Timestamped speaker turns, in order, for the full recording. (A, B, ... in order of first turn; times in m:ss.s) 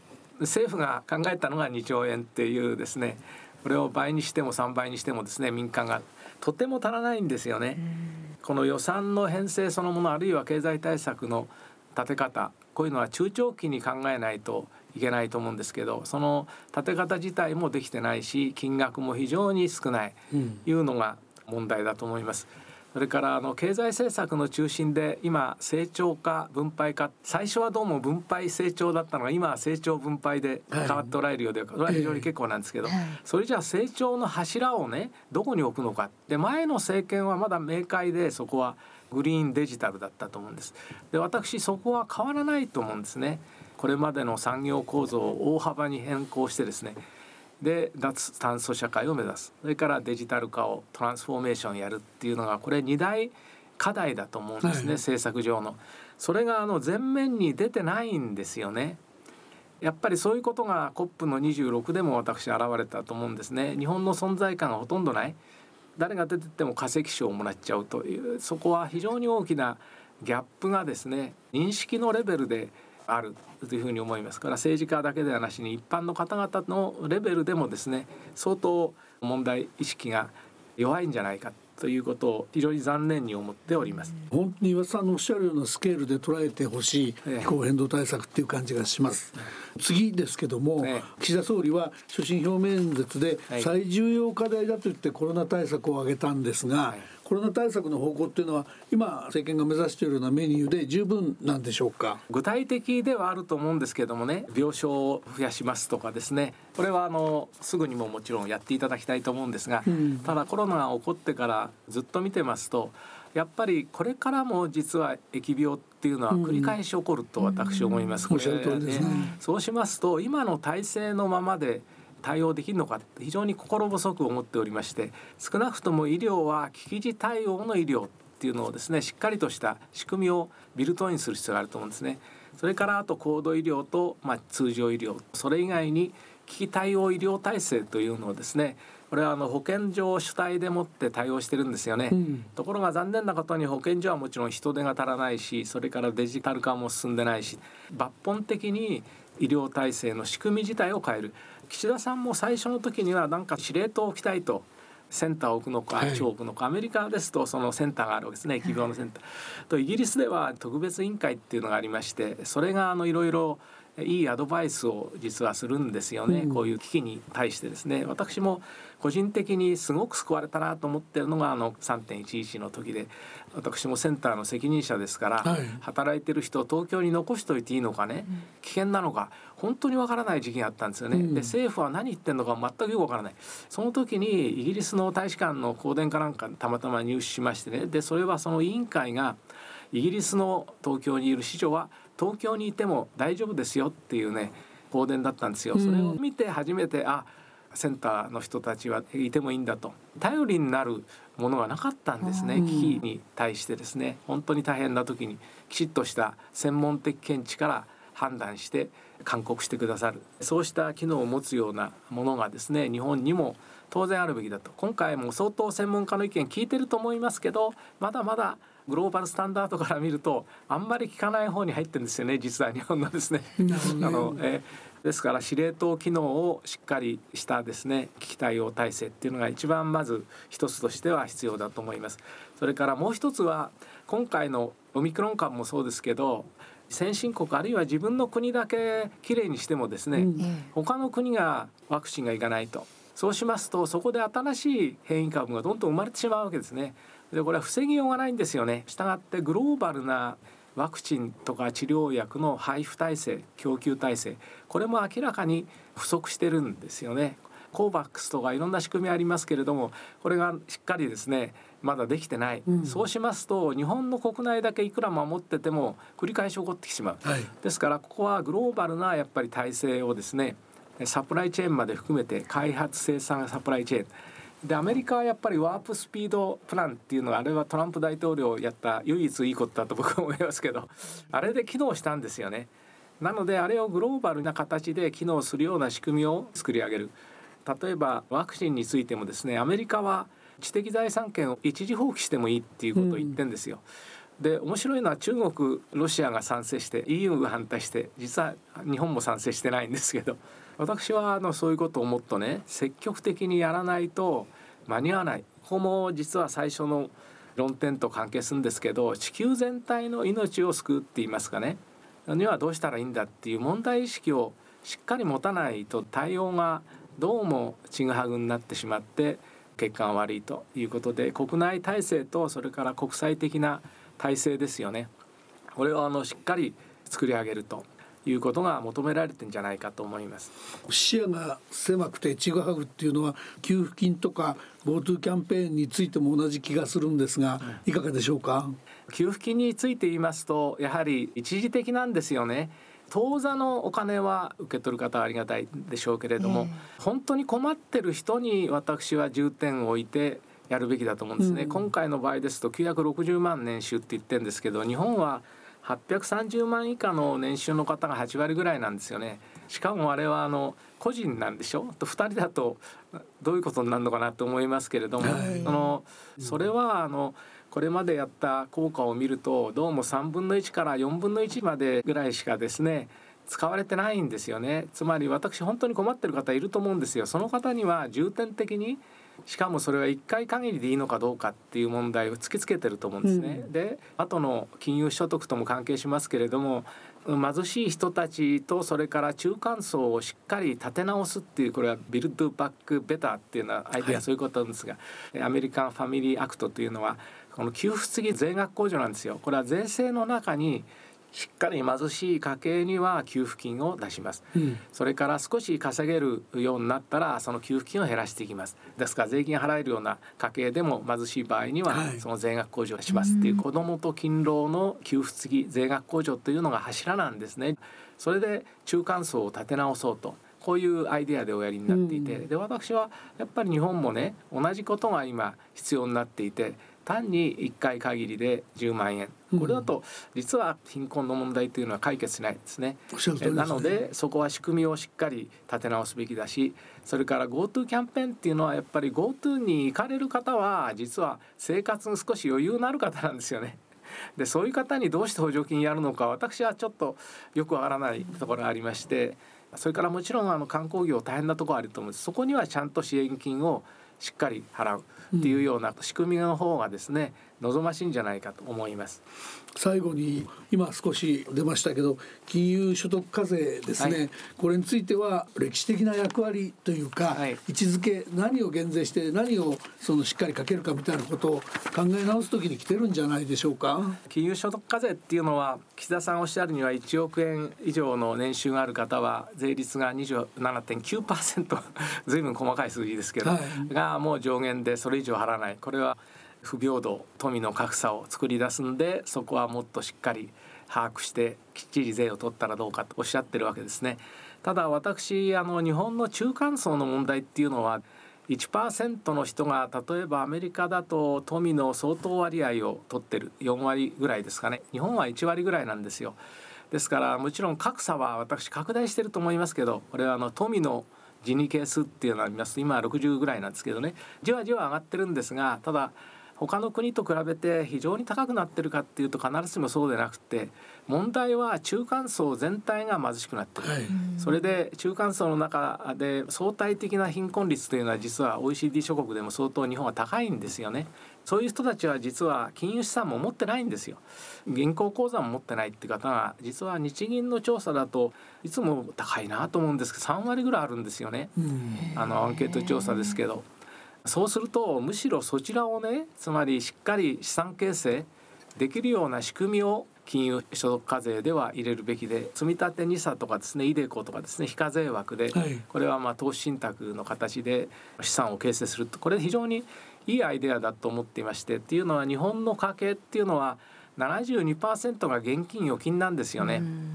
0:00.4-0:47.0 A
0:20.3-0:20.6 B
0:30.7-0:31.1 B
0:31.9-0:32.2 B
0:47.6-0:59.0 A
0:54.6-0:54.9 B
0:59.8-1:05.4 A
1:06.0-1:24.2 A
1:24.3-1:42.2 B
1:27.2-1:27.5 A
1:30.8-1:31.1 A
1:42.3-3:09.4 A
1:49.8-1:50.2 B
1:56.3-1:56.7 B
1:58.3-1:59.3 B
2:22.1-2:22.5 B
2:36.0-2:36.2 B
2:46.3-2:46.7 B
2:55.4-2:55.8 B
3:01.1-3:01.5 B
3:09.9-4:34.1 A
3:15.7-3:16.2 B
3:22.5-3:23.0 B
3:43.6-3:44.4 B
4:00.1-4:00.5 B
4:22.7-4:23.0 B
4:27.2-4:27.5 B
4:34.6-4:47.1 A
4:47.6-4:53.8 A
4:53.0-4:53.4 B
4:54.4-5:25.1 A
5:25.8-5:30.5 A
5:30.9-5:38.8 B
5:39.1-6:02.8 A
5:51.4-5:51.8 B
6:03.4-7:23.8 A
6:05.2-6:05.8 B
6:23.2-6:23.7 B
6:51.9-6:52.2 B
7:01.9-7:02.4 B
7:09.5-7:09.8 B
7:13.1-7:13.9 B
7:24.4-7:39.2 A
7:35.3-7:35.6 B
7:39.8-7:54.2 B
7:47.3-7:47.6 A
7:54.3-8:26.4 A
8:03.4-8:03.9 B
8:26.9-9:03.6 A
8:43.8-8:44.1 B
9:01.6-9:02.1 B
9:04.2-9:26.9 A
9:15.5-9:15.8 B